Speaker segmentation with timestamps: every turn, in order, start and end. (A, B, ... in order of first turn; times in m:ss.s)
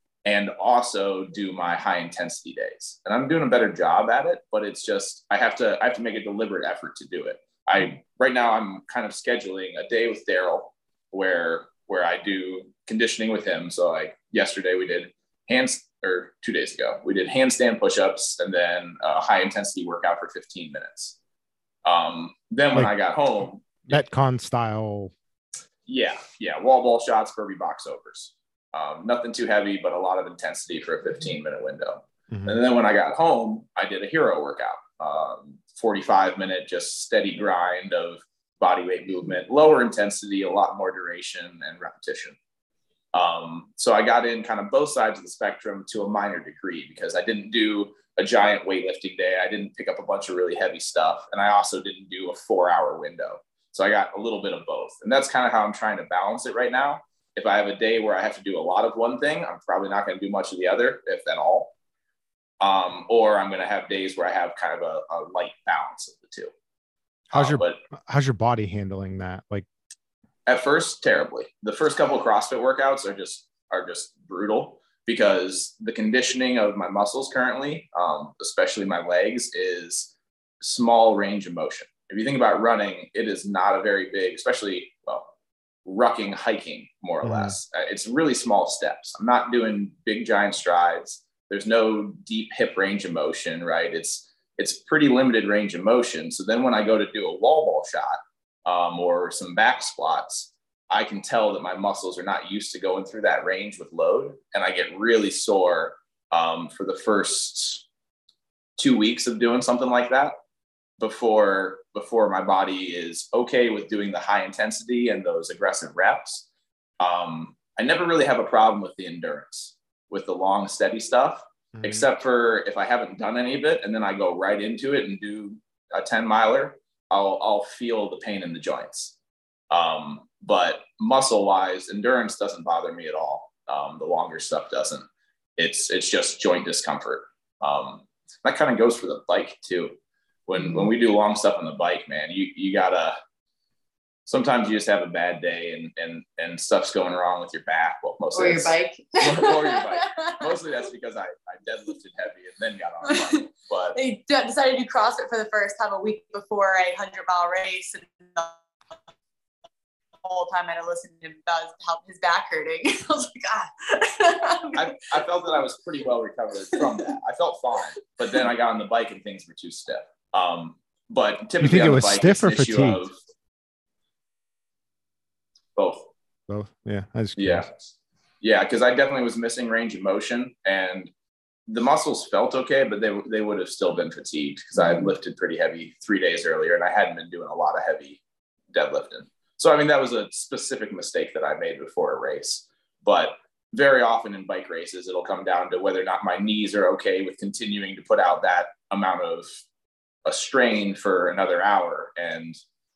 0:00.2-0:21.2 A
0:21.8-0:24.0 A
0:23.8-0:25.1 B
0:25.9-0:42.4 A
0:32.3-0:32.6 B
0:43.1-1:01.7 A
1:02.6-1:06.5 A
1:07.3-1:09.6 B
1:07.3-1:07.8 A
1:10.4-1:25.3 A
1:25.8-1:47.8 A
1:27.2-1:27.6 B
1:48.8-1:50.3 A
1:51.0-1:56.4 A
1:57.0-2:09.1 A
2:01.7-2:02.0 B
2:09.7-2:15.0 A
2:15.6-2:20.0 A
2:20.5-2:23.2 A
2:24.2-2:34.0 A
2:28.3-2:30.5 C
2:33.0-2:38.6 C
2:40.2-2:44.8 C
2:44.7-2:53.2 A
2:51.6-2:53.0 B
2:55.8-2:56.1 A
2:56.5-2:57.7 B
2:57.4-2:57.8 A
2:58.4-3:01.1 A
3:01.7-3:08.2 A
3:04.8-3:05.1 C
3:08.7-3:19.5 A
3:20.2-3:22.6 A